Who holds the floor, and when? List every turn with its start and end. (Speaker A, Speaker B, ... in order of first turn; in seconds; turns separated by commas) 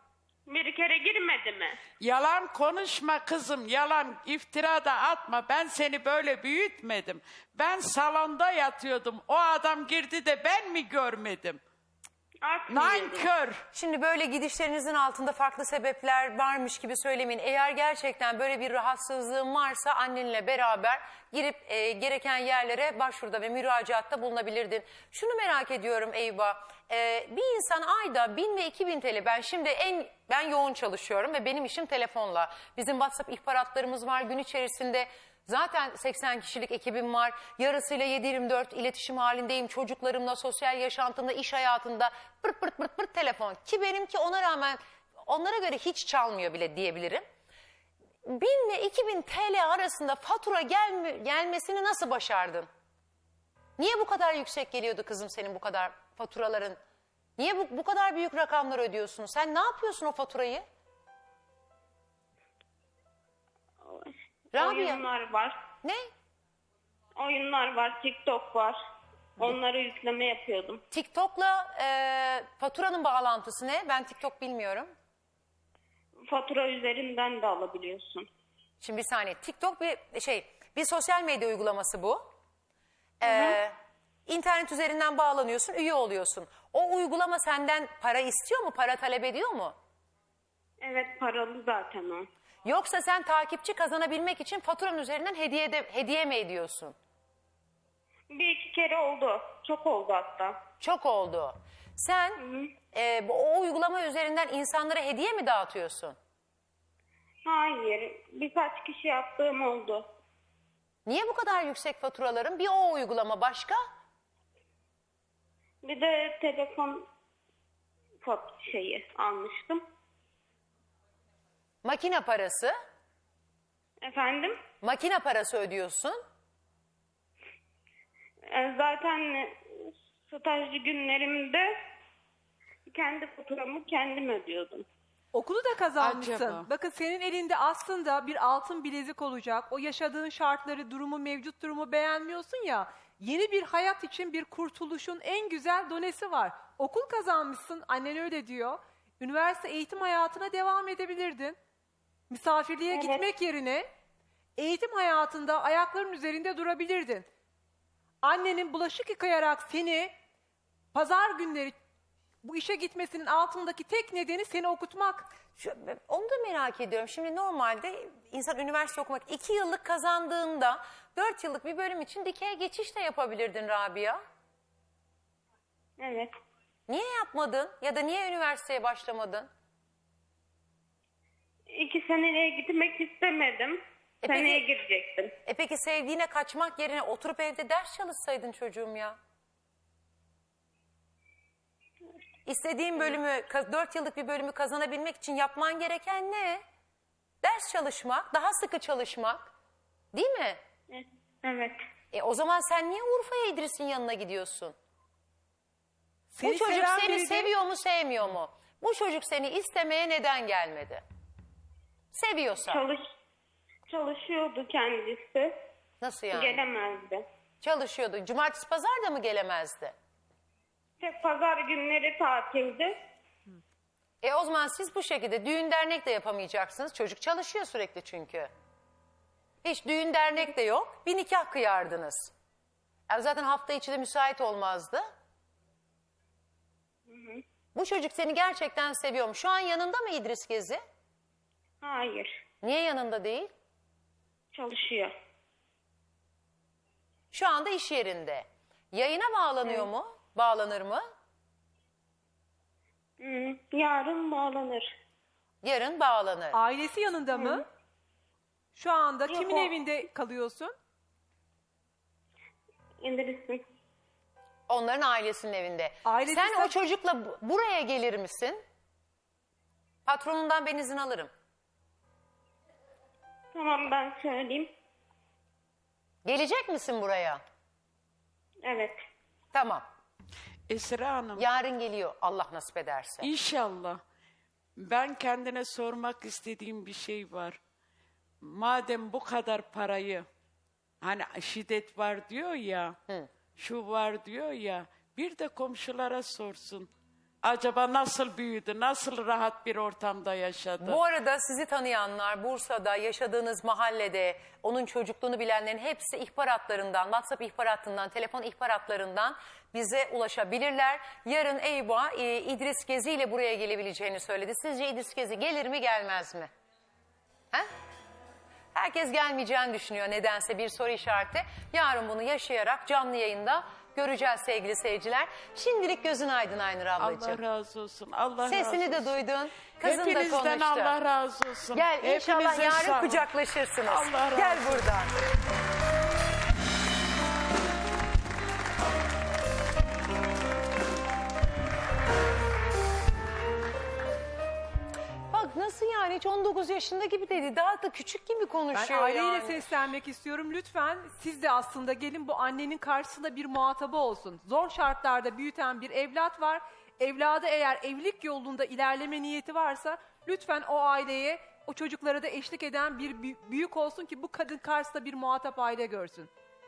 Speaker A: 0.5-1.8, Speaker B: 2.0-11.6, Speaker A: 12.4-13.3, Speaker B: 12.7-13.6, Speaker C: 13.7-47.2, Speaker C: 48.2-52.7, Speaker C: 53.8-56.8, Speaker C: 57.4-60.6, Speaker A: 63.8-65.6, Speaker C: 64.5-65.0, Speaker C: 65.8-66.1, Speaker A: 67.1-68.8, Speaker A: 69.4-70.8, Speaker C: 70.9-74.9, Speaker A: 76.3-78.3, Speaker C: 78.8-82.3, Speaker C: 83.2-83.8, Speaker A: 83.2-83.6, Speaker C: 84.3-89.7, Speaker A: 90.8-92.3, Speaker C: 92.6-96.9, Speaker A: 98.3-100.6, Speaker C: 100.8-102.4, Speaker A: 102.4-102.7, Speaker C: 102.9-106.2, Speaker A: 107.4-110.1, Speaker C: 111.0-113.8, Speaker A: 115.8-117.1, Speaker A: 118.2-119.8, Speaker C: 121.8-122.7, Speaker A: 124.0-124.6, Speaker C: 124.8-126.2, Speaker A: 128.4-131.8, Speaker A: 132.9-134.8, Speaker D: 135.3-151.6, Speaker B: 136.0-136.7, Speaker D: 152.3-153.8, Speaker A: 152.9-153.3, Speaker D: 154.6-157.2, Speaker D: 158.2-160.1, Speaker D: 160.9-161.7, Speaker D: 162.4-165.3, Speaker C: 165.5-174.2, Speaker A: 176.0-176.3, Speaker C: 176.9-179.5, Speaker A: 181.7-185.3, Speaker C: 184.2-184.6, Speaker C: 185.4-189.2, Speaker C: 192.4-196.6, Speaker C: 197.4-199.5, Speaker C: 200.1-200.6, Speaker A: 200.9-201.8, Speaker C: 202.1-204.7, Speaker D: 206.3-207.5, Speaker C: 206.4-211.0, Speaker C: 212.1-212.8, Speaker A: 212.7-213.0, Speaker A: 213.9-215.6, Speaker C: 216.0-216.6, Speaker A: 216.3-217.2, Speaker C: 217.6-219.9, Speaker A: 221.0-222.9, Speaker C: 224.2-228.5, Speaker C: 229.6-232.3, Speaker C: 233.1-235.1, Speaker A: 237.1-237.4, Speaker C: 237.7-240.8, Speaker A: 241.8-242.4, Speaker C: 242.6-243.5, Speaker A: 244.5-245.1, Speaker C: 247.3-251.1, Speaker A: 249.6-249.9, Speaker A: 253.2-254.9, Speaker C: 255.6-256.6, Speaker D: 256.5-257.6, Speaker A: 257.3-257.6, Speaker D: 258.7-260.7, Speaker A: 259.3-259.8, Speaker A: 263.0-263.6, Speaker C: 264.7-268.6, Speaker D: 266.0-266.7, Speaker C: 270.1-271.3, Speaker A: 273.5-274.7, Speaker C: 276.2-277.4, Speaker A: 278.6-279.0, Speaker C: 279.5-279.8, Speaker B: 280.7-281.4, Speaker C: 281.4-283.3, Speaker B: 283.2-284.0, Speaker B: 284.8-287.6, Speaker B: 288.4-290.3, Speaker B: 291.0-293.0, Speaker B: 293.6-296.9, Speaker B: 297.4-301.0, Speaker C: 300.8-316.5, Speaker C: 318.7-327.4, Speaker B: 327.0-329.1, Speaker C: 328.4-331.0, Speaker B: 329.8-333.3, Speaker C: 331.7-335.1, Speaker B: 333.9-334.9, Speaker C: 345.3-349.6, Speaker D: 348.7-366.3